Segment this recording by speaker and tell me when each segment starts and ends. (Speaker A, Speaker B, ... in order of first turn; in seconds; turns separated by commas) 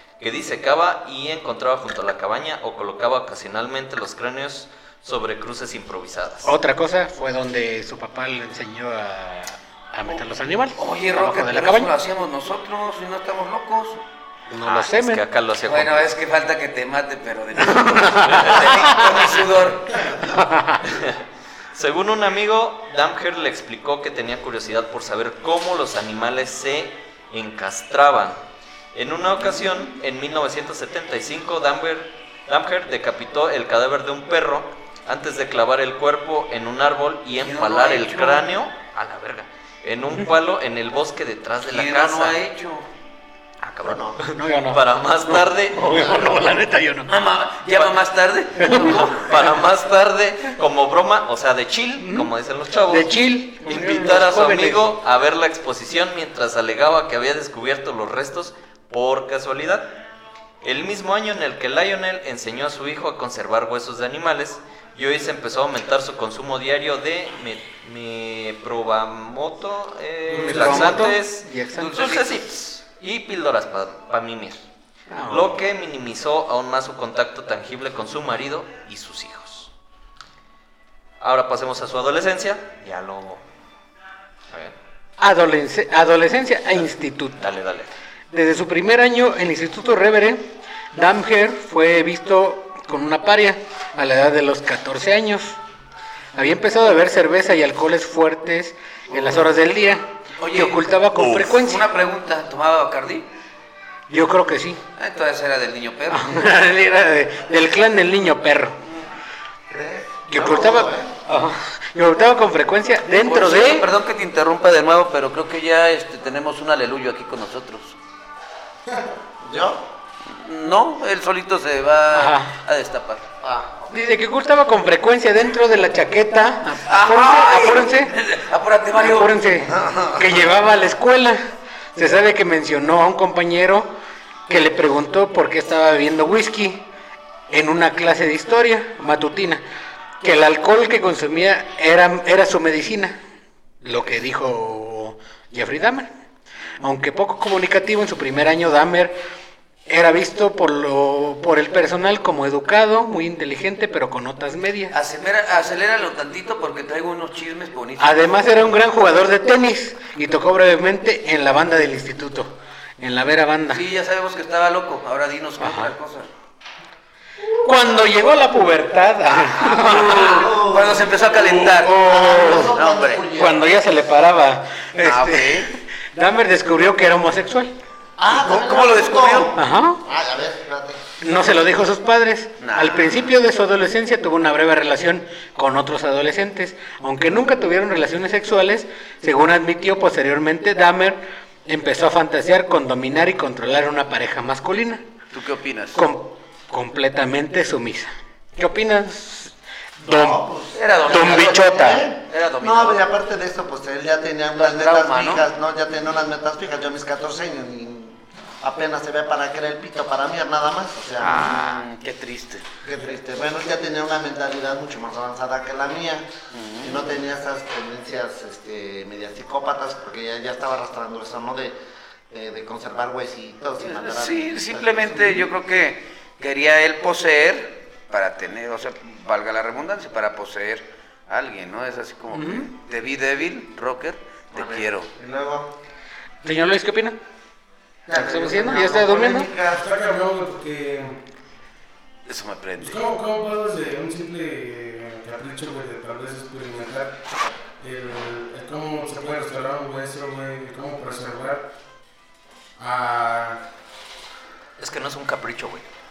Speaker A: 0.2-6.5, Speaker B: 6.4-11.9, Speaker C: 10.8-14.0, Speaker B: 14.5-15.2, Speaker A: 14.6-16.1, Speaker C: 15.7-20.3, Speaker B: 17.7-19.1, Speaker A: 18.2-19.3, Speaker B: 20.2-20.8, Speaker A: 20.8-21.2, Speaker A: 21.7-28.4, Speaker A: 28.9-42.4, Speaker C: 37.4-38.5, Speaker C: 41.6-42.9, Speaker A: 43.6-44.1, Speaker D: 43.8-44.2, Speaker B: 44.2-47.1, Speaker A: 44.7-46.4, Speaker C: 47.1-49.4, Speaker B: 48.6-49.1, Speaker A: 48.8-60.0, Speaker B: 52.0-52.3, Speaker B: 52.9-54.8, Speaker A: 60.6-74.6, Speaker E: 70.3-70.7, Speaker B: 70.3-72.1, Speaker C: 71.8-72.3, Speaker B: 75.1-75.6, Speaker A: 75.3-79.7, Speaker A: 81.2-83.4, Speaker A: 84.5-84.8, Speaker B: 85.2-87.4, Speaker A: 87.4-87.9, Speaker B: 88.3-95.6, Speaker B: 96.3-101.8, Speaker C: 99.1-99.5, Speaker C: 100.4-100.8, Speaker A: 101.2-101.6, Speaker C: 101.5-103.3, Speaker B: 104.1-104.8, Speaker C: 105.0-106.5, Speaker B: 106.1-108.8, Speaker D: 109.7-111.1, Speaker B: 110.3-113.9, Speaker C: 113.2-118.0, Speaker E: 118.8-119.1, Speaker D: 119.4-119.8, Speaker C: 120.3-123.2, Speaker B: 122.1-122.5, Speaker D: 123.4-123.8, Speaker B: 123.9-128.1, Speaker C: 126.8-129.6, Speaker B: 129.0-131.4, Speaker D: 129.7-130.4, Speaker B: 131.9-133.9, Speaker B: 134.5-136.8, Speaker B: 137.5-139.6, Speaker B: 140.2-143.2, Speaker B: 143.8-146.1, Speaker B: 146.8-149.2, Speaker B: 149.9-154.9, Speaker C: 154.9-158.4, Speaker B: 158.0-163.8, Speaker C: 163.7-166.3, Speaker B: 165.6-165.9, Speaker B: 167.6-170.5, Speaker C: 169.6-173.4, Speaker D: 169.7-173.6, Speaker B: 171.4-172.7, Speaker B: 173.3-177.7, Speaker C: 175.0-175.7, Speaker D: 178.2-181.0, Speaker C: 178.3-179.5, Speaker B: 179.5-180.0, Speaker B: 181.2-195.0, Speaker C: 182.6-183.2, Speaker C: 195.3-196.0, Speaker B: 195.9-200.4, Speaker D: 200.1-211.8, Speaker C: 200.7-203.0, Speaker B: 201.1-202.1, Speaker C: 204.5-205.5, Speaker C: 211.2-212.7, Speaker D: 212.8-216.3, Speaker C: 216.5-217.1, Speaker D: 216.8-221.8, Speaker D: 222.3-225.5, Speaker C: 223.8-235.1, Speaker B: 232.3-232.7, Speaker D: 234.5-235.7, Speaker B: 236.4-237.2, Speaker D: 238.1-239.8, Speaker B: 238.1-239.5, Speaker E: 239.7-241.2, Speaker C: 242.3-243.0, Speaker E: 242.8-247.2, Speaker E: 247.8-251.7, Speaker E: 252.8-253.6, Speaker A: 254.8-255.9